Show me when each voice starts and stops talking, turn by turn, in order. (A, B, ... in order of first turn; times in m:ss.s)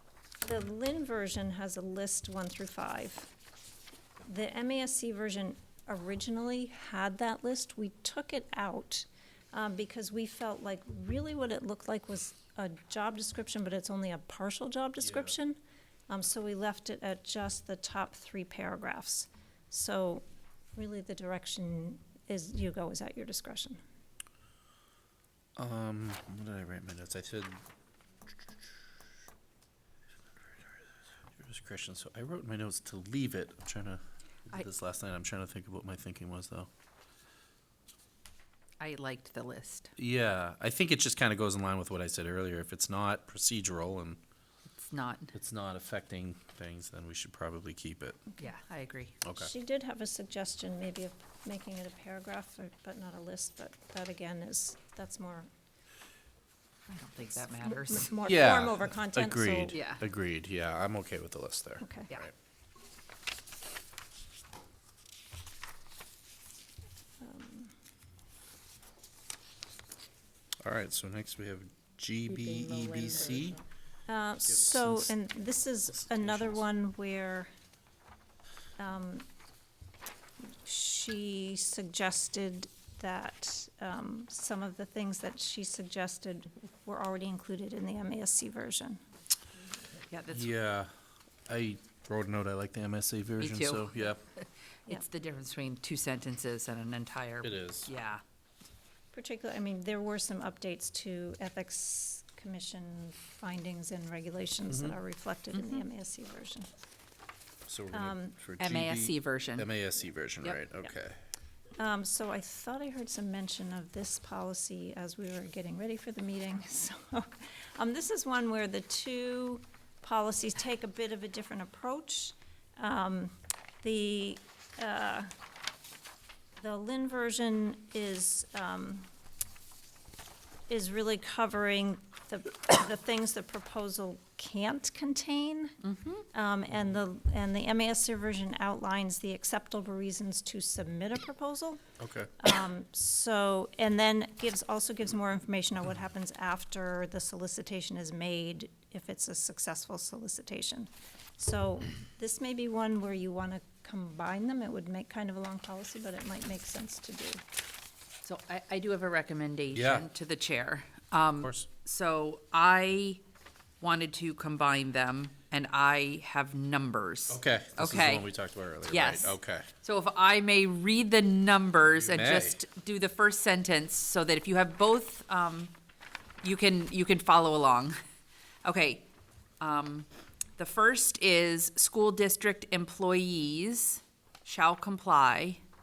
0:00.4-0:03.3 A
0:04.2-0:15.6 A
0:15.0-0:15.3 B
0:16.1-0:23.8 A
0:25.6-0:27.6 B
0:31.3-0:36.7 B
0:38.8-0:39.9 C
0:40.0-0:44.2 B
0:44.8-0:45.3 C
0:45.3-0:48.3 B
0:48.4-0:49.2 C
0:49.2-0:49.5 B
0:49.3-0:55.5 A
0:56.9-0:58.1 C
0:57.6-0:59.8 A
0:58.2-1:02.3 B
0:59.7-1:00.0 C
1:01.8-1:02.1 A
1:07.2-1:07.7 A
1:10.6-1:13.6 B
1:14.1-1:17.5 A
1:14.5-1:15.1 B
1:16.1-1:16.6 B
1:18.8-1:19.3 A
1:20.4-1:29.0 A
1:30.1-1:30.5 C
1:30.3-1:30.9 B
1:31.5-1:34.2 B
1:33.4-1:38.2 C
1:37.4-1:37.9 B
1:39.1-1:46.7 A
1:44.7-1:45.0 B
1:47.7-1:51.2 B
1:47.9-1:48.4 A
1:48.6-1:49.7 C
1:51.8-2:05.3 A
2:06.6-2:09.1 A
2:10.7-2:15.8 A
2:15.8-2:16.3 C
2:16.3-2:21.8 A
2:22.0-2:22.3 B
2:22.4-2:37.4 A
2:38.2-2:43.2 C
2:39.7-2:40.1 B
2:41.4-2:41.7 B
2:43.8-2:48.3 C
2:47.3-2:49.7 B
2:48.9-2:55.7 C
2:52.0-2:52.6 B
2:56.4-2:58.0 C
2:58.6-2:59.0 C
2:59.6-3:05.6 C